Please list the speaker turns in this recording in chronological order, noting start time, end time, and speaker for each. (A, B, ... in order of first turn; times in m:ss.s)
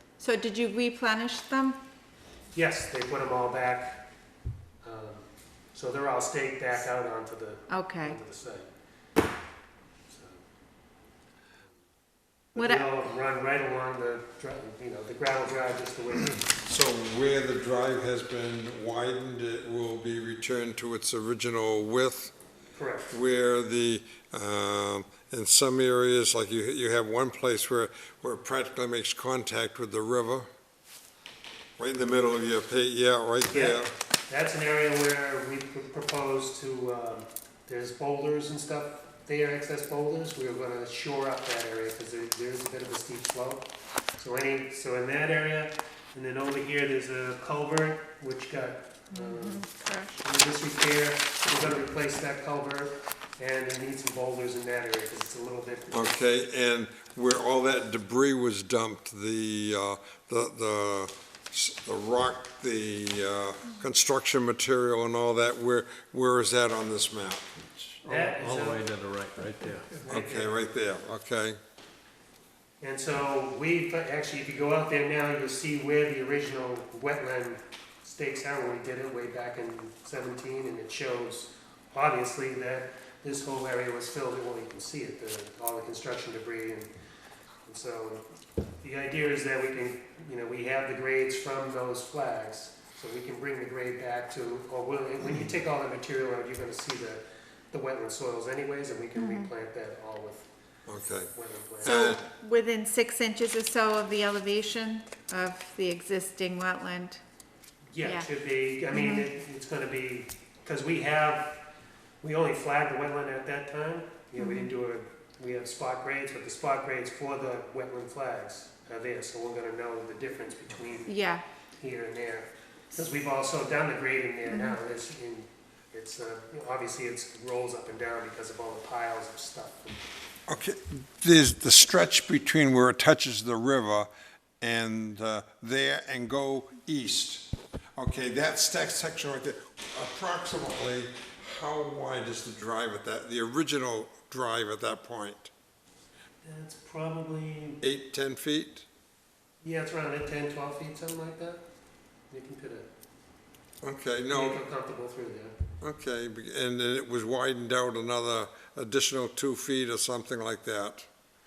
0:00.2-0:01.8 A
0:02.5-0:04.0 B
0:04.8-0:05.2 B
0:05.7-0:08.7 B
0:07.7-0:08.2 A
0:10.1-0:10.4 B
0:12.6-0:16.4 B
0:12.6-0:12.9 A
0:16.5-0:22.3 C
0:22.8-0:23.2 B
0:23.1-0:30.5 C
0:31.8-0:33.9 C
0:33.5-0:49.6 B
0:49.1-0:50.2 A
0:50.2-0:56.2 B
0:55.9-1:08.0 C
1:08.0-1:10.0 D
1:08.0-1:08.9 B
1:09.9-1:10.6 B
1:10.1-1:11.6 C
1:12.8-1:26.9 B
1:27.7-1:28.2 B
1:28.8-1:40.5 B
1:39.2-1:39.5 A
1:40.9-1:42.2 C
1:41.3-1:42.2 B
1:41.8-1:47.2 A
1:47.9-1:51.6 B
1:48.0-1:48.3 A
1:48.9-1:49.3 A
1:52.2-2:01.1 B
1:54.4-1:54.7 A
2:01.1-2:01.4 A
2:01.8-2:10.0 B
2:04.5-2:04.8 A
2:10.5-2:14.1 C
2:14.6-2:25.5 C
2:26.4-2:27.8 B
2:27.8-2:28.9 C
2:29.6-2:31.6 B
2:32.3-2:32.9 B
2:33.8-2:34.6 C
2:34.3-2:35.5 B
2:35.8-2:41.1 C